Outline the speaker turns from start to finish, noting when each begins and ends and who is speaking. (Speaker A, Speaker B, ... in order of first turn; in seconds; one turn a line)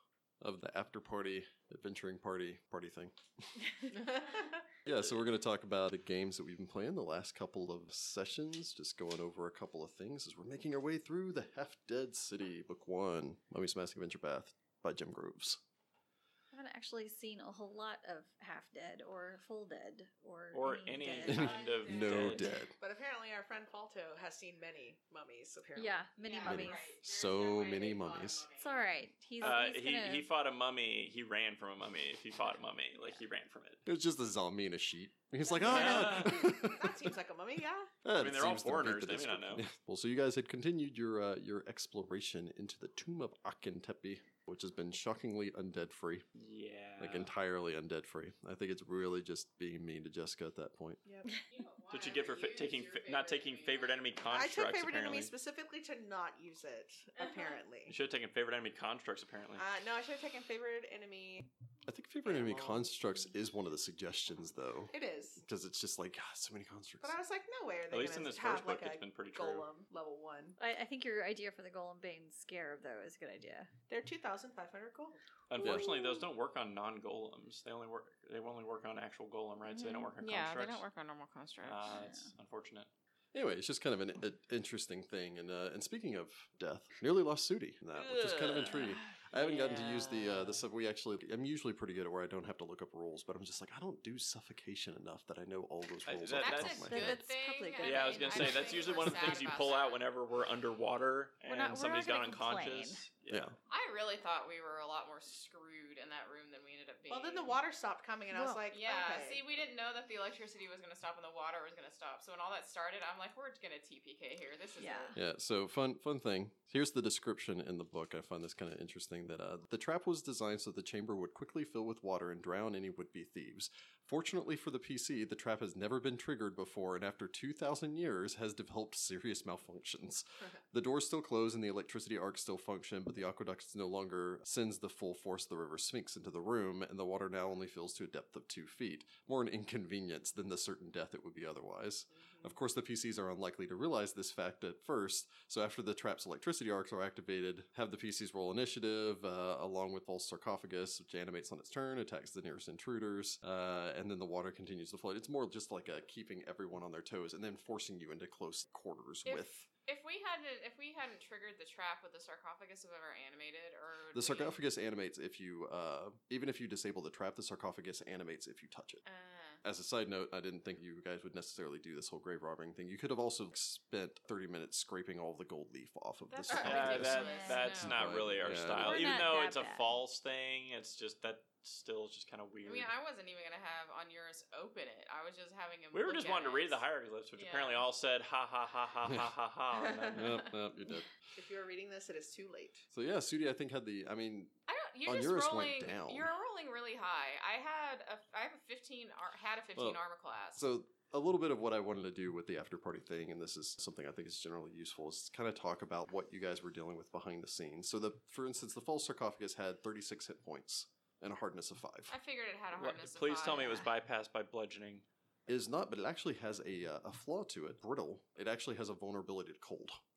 Speaker A: 0.4-3.5
Speaker B: 3.9-4.4
Speaker A: 4.8-15.6
Speaker C: 16.5-21.5
Speaker D: 20.5-22.5
Speaker E: 21.2-22.4
Speaker A: 21.2-22.7
Speaker B: 22.8-26.1
Speaker C: 25.7-26.9
Speaker E: 26.2-28.9
Speaker A: 26.4-28.4
Speaker C: 28.6-30.3
Speaker D: 29.4-33.8
Speaker A: 33.9-37.1
Speaker B: 35.5-37.9
Speaker D: 35.6-36.5
Speaker A: 38.0-46.2
Speaker D: 38.1-39.6
Speaker D: 46.3-47.3
Speaker A: 47.0-51.0
Speaker B: 51.0-51.4
Speaker E: 51.5-54.2
Speaker D: 51.9-55.3
Speaker B: 54.3-57.9
Speaker E: 57.2-57.6
Speaker D: 57.9-59.6
Speaker B: 59.5-61.5
Speaker A: 61.9-67.1
Speaker B: 62.2-62.9
Speaker B: 64.9-65.4
Speaker B: 67.0-70.6
Speaker D: 67.9-69.7
Speaker C: 70.6-73.7
Speaker B: 73.9-75.2
Speaker D: 75.5-80.8
Speaker C: 75.5-76.2
Speaker A: 75.6-75.9
Speaker C: 79.7-80.1
Speaker E: 80.2-81.8
Speaker D: 81.6-82.9
Speaker C: 81.9-82.3
Speaker A: 83.3-97.2
Speaker D: 88.3-90.5
Speaker E: 89.4-90.0
Speaker D: 96.0-96.9
Speaker E: 96.4-100.0
Speaker C: 96.9-99.2
Speaker D: 97.8-103.5
Speaker C: 101.5-103.0
Speaker A: 103.3-103.5
Speaker E: 103.7-107.6
Speaker B: 107.1-109.4
Speaker E: 108.6-115.2
Speaker C: 114.8-115.1
Speaker A: 115.1-159.6
Speaker B: 142.2-142.5
Speaker E: 159.2-164.6
Speaker A: 164.1-169.0
Speaker E: 169.0-169.6
Speaker A: 169.6-179.3
Speaker E: 176.3-177.9
Speaker D: 176.6-182.9
Speaker C: 177.0-177.7
Speaker C: 178.7-179.8
Speaker E: 182.6-186.8
Speaker D: 185.9-190.5
Speaker E: 187.4-187.8
Speaker A: 190.1-191.1
Speaker B: 191.3-192.8
Speaker A: 192.9-196.3
Speaker E: 194.7-200.6
Speaker A: 199.7-200.0
Speaker A: 200.6-212.1
Speaker E: 212.1-213.9
Speaker D: 212.7-215.1
Speaker A: 215.5-220.0